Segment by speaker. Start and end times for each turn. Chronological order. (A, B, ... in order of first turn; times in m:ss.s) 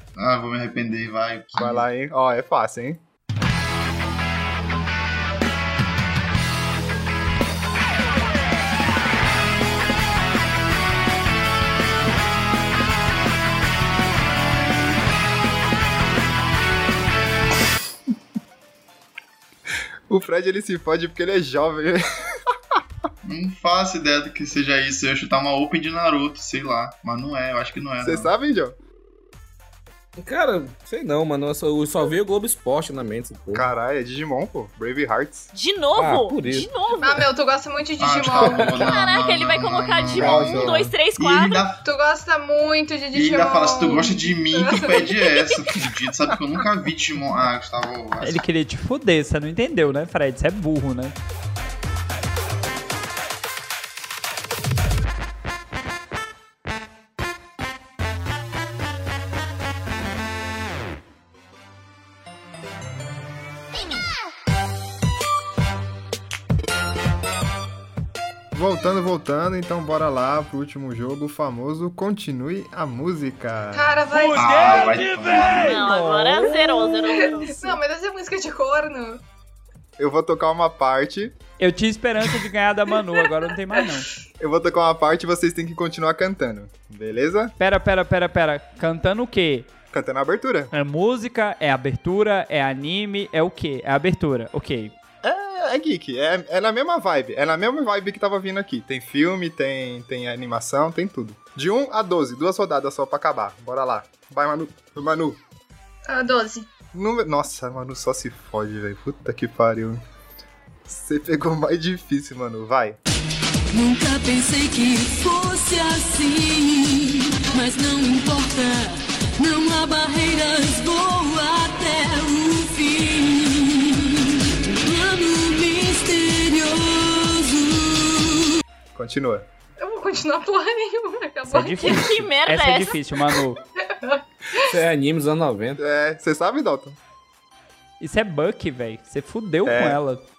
0:00.2-0:01.8 A
0:01.6-0:03.0 B
0:20.1-0:22.4 B
0:23.2-0:28.3 A
0:28.0-0:28.8 B
0:30.2-0:33.7 C
0:33.5-0:35.5 B
0:35.5-0:37.3 D
0:36.0-0:36.7 C
0:37.0-0:38.8 E
0:38.0-0:41.8 A
0:38.4-0:38.8 C
0:38.8-0:41.7 D
0:40.1-0:40.9 B
0:41.8-0:45.2 E
0:43.1-0:48.4 A
0:48.2-0:51.2 F
1:08.5-1:14.0 B
1:13.7-1:15.0 E
1:14.1-1:17.0 F
1:14.4-1:15.8 A
1:15.6-1:17.8 D
1:17.0-1:19.2 E
1:20.0-1:21.4 B
1:21.6-1:24.1 F
1:24.4-1:27.5 B
1:27.6-1:29.7 F
1:29.9-1:30.7 B
1:30.7-1:35.0 F
1:35.2-1:45.4 B
1:46.1-1:46.7 E
1:46.9-1:50.0 B
1:50.8-1:53.0 B
1:53.7-1:56.8 G
1:57.6-1:58.7 G
1:59.4-2:03.2 G
2:04.8-2:07.8 G
2:09.0-2:09.5 B
2:09.8-2:12.1 E
2:11.5-2:13.6 F
2:11.8-2:13.0 D
2:14.0-2:14.8 E
2:14.7-2:15.8 C
2:15.8-2:17.0 B
2:18.0-2:20.2 F
2:19.7-2:20.0 B